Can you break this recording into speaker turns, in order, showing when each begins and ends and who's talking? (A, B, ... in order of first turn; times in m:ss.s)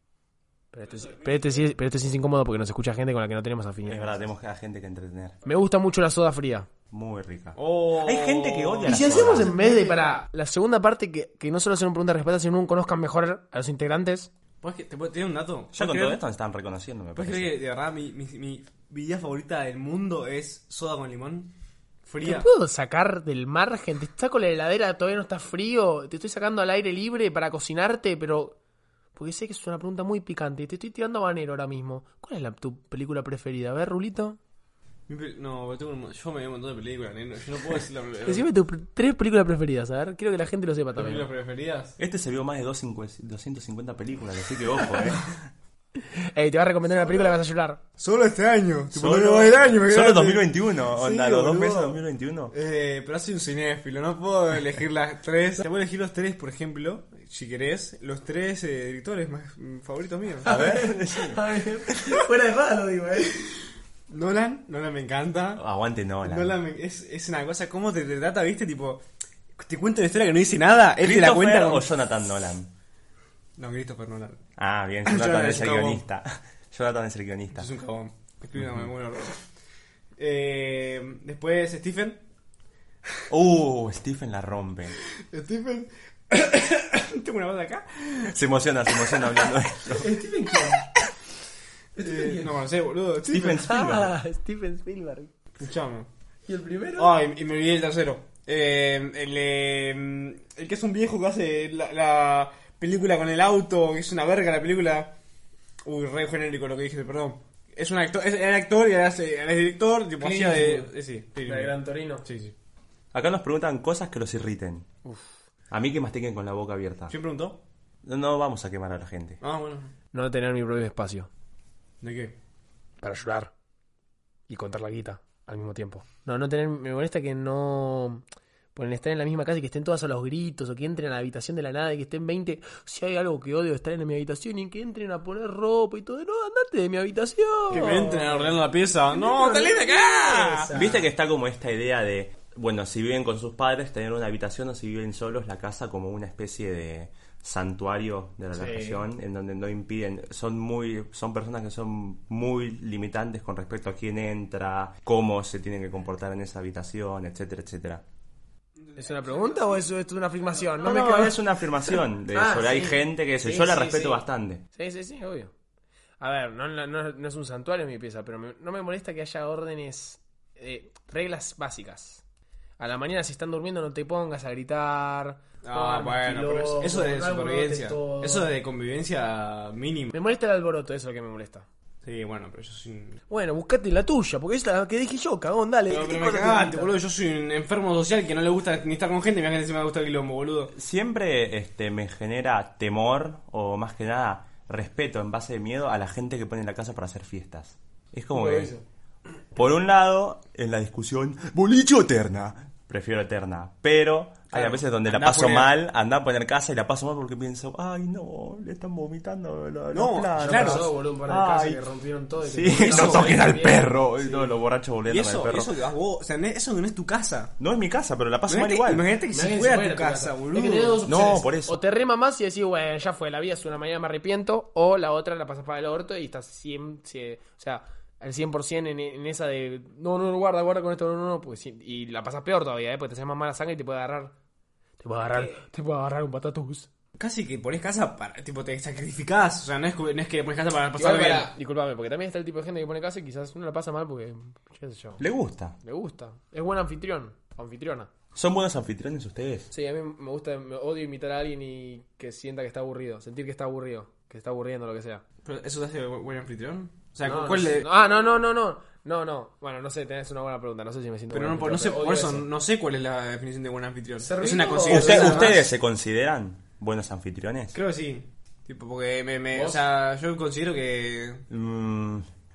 0:00.7-0:04.2 A
0:03.9-0:05.4 B
0:05.4-0:06.7 A
0:06.9-0:09.5 B
0:07.6-0:09.5 C
0:08.9-0:14.3 A
0:14.6-0:16.2 C
0:15.7-0:17.5 B
0:17.2-0:21.5 C
0:22.1-0:22.5 C
0:22.2-0:28.6 A
0:29.2-0:34.4 A
0:35.1-0:38.5 C
0:38.3-0:41.3 A
0:41.0-0:42.0 C
0:42.0-0:45.4 B
0:46.1-0:47.8 A
0:48.0-0:52.0 C
0:48.9-0:52.5 B
0:52.5-1:00.5 C
1:00.4-1:01.5 B
1:00.4-1:03.5 A
1:04.1-1:05.6 C
1:05.6-1:06.6 B
1:06.2-1:09.0 C
1:09.6-1:11.9 C
1:11.0-1:12.7 B
1:13.6-1:14.4 C
1:14.6-1:17.7 B
1:15.0-1:16.0 C
1:17.5-1:19.4 C
1:18.6-1:18.9 B
1:20.2-1:22.2 C
1:23.3-1:25.0 B
1:25.2-1:28.3 C
1:28.3-1:30.2 B
1:29.9-1:30.9 A
1:32.0-1:32.5 A
1:32.0-1:33.6 C
1:33.3-1:34.1 B
1:33.4-1:35.3 A
1:35.6-1:36.1 C
1:36.5-1:37.2 A
1:37.0-1:45.1 C
1:45.8-1:52.5 C
1:50.2-1:50.9 A
1:51.4-1:52.2 A
1:53.1-1:54.9 B
1:55.7-1:57.1 B
1:57.1-1:57.6 C
1:58.0-1:59.4 B
1:59.4-1:59.9 C
2:00.1-2:01.3 A
2:02.0-2:02.4 C
2:03.0-2:03.5 A
2:04.5-2:08.2 A
2:08.8-2:18.6 A
2:17.7-2:20.8 C
2:19.1-2:21.0 A
2:20.7-2:38.0 B
2:28.5-2:29.0 A
2:39.0-2:39.6 C
2:39.0-2:45.5 A
2:40.8-2:44.6 B
2:46.2-2:52.2 A
2:52.8-2:58.5 A
2:55.6-3:00.2 C
3:00.1-3:01.7 A
3:02.0-3:03.2 C
3:03.3-3:06.9 A
3:05.9-3:10.7 C
3:10.7-3:18.7 B
3:18.3-3:18.8 A
3:19.5-3:31.8 B
3:24.5-3:25.7 C
3:29.9-3:30.9 C
3:30.4-3:34.5 A
3:32.5-3:35.7 B
3:32.8-3:33.3 C
3:35.1-3:37.5 C
3:37.6-3:39.0 B
3:38.5-3:41.0 C
3:39.3-3:54.4 A
3:41.1-3:41.8 B
3:55.0-3:56.9 A
3:57.2-4:01.5 C
4:01.0-4:05.2 A
4:05.2-4:05.8 B
4:05.8-4:08.1 A
4:08.4-4:09.7 B
4:09.7-4:15.2 A
4:15.4-4:17.9 C
4:17.2-4:22.5 A
4:21.3-4:25.7 C
4:24.2-4:25.6 A
4:24.9-4:27.8 B
4:27.7-4:31.4 C
4:29.5-4:29.8 A
4:31.5-4:32.2 B